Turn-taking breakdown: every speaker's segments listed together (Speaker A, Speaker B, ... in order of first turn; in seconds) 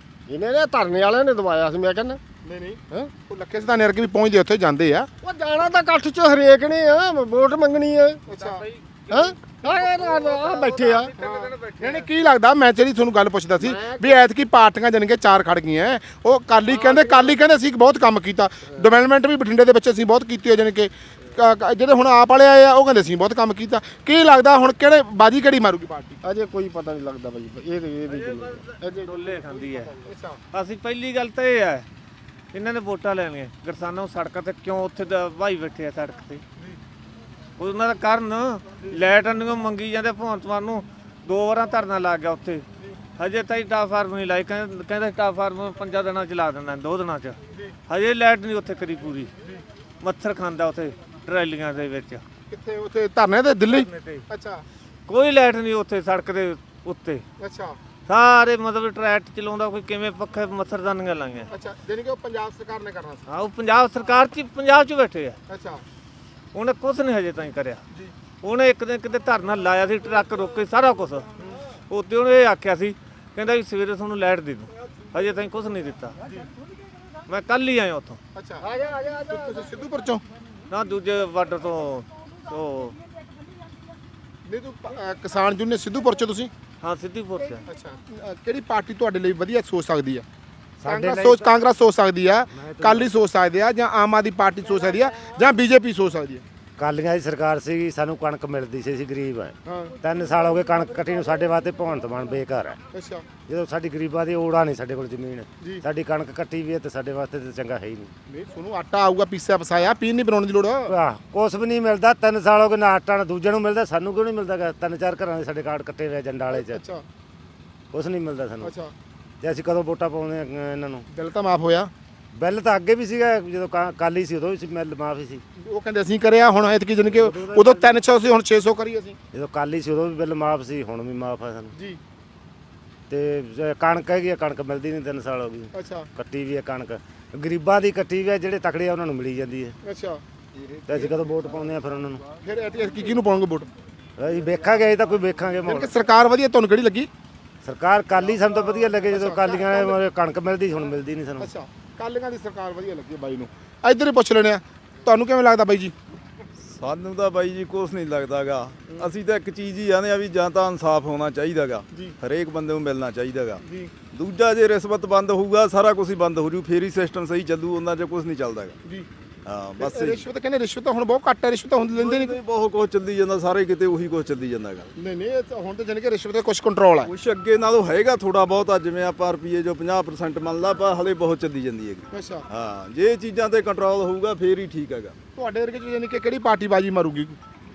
Speaker A: 0.3-2.2, 5.2-8.2, 9.1-11.1, 13.6-14.0, 16.7-17.1, 26.3-29.1, 78.6-79.4
Speaker B: 2.4-5.1, 8.3-8.6, 11.2-26.2, 30.0-30.4, 52.5-54.6, 57.4-57.8, 61.5-63.2, 65.5-65.8, 78.3-78.7, 79.3-80.2, 84.5-86.5, 87.7-90.2, 90.8-96.4, 99.7-99.9, 102.9-103.2, 108.3-110.9, 116.5-117.0, 118.6-118.9, 121.1-121.9, 125.6-129.2, 135.7-136.1, 139.8-140.2, 142.4-143.7, 145.7-147.1, 149.1-150.0, 151.4-155.9, 163.7-163.9, 169.8-172.4, 175.0-177.1, 182.1-182.5, 185.4-187.4
Speaker C: 8.3-12.1, 28.1-30.0, 30.5-31.9, 32.5-36.4, 37.6-42.6, 43.2-47.4, 47.9-49.3, 50.0-52.2, 53.7-54.3, 55.1-57.2, 58.1-61.5, 63.3-65.4, 66.5-67.8, 68.4-71.3, 71.9-76.2, 77.3-78.2, 80.7-83.0, 86.8-87.7
Speaker D: 90.8-91.5, 92.5-93.1, 96.8-102.8, 103.5-108.1, 110.9-116.8, 117.9-118.7, 119.4-121.1, 122.3-125.4, 127.1-127.9, 129.3-131.7, 133.1-139.8, 140.9-142.2, 144.2-145.9, 147.6-151.5
Speaker E: 156.7-168.8, 169.5-170.3, 171.9-174.9, 177.1-185.2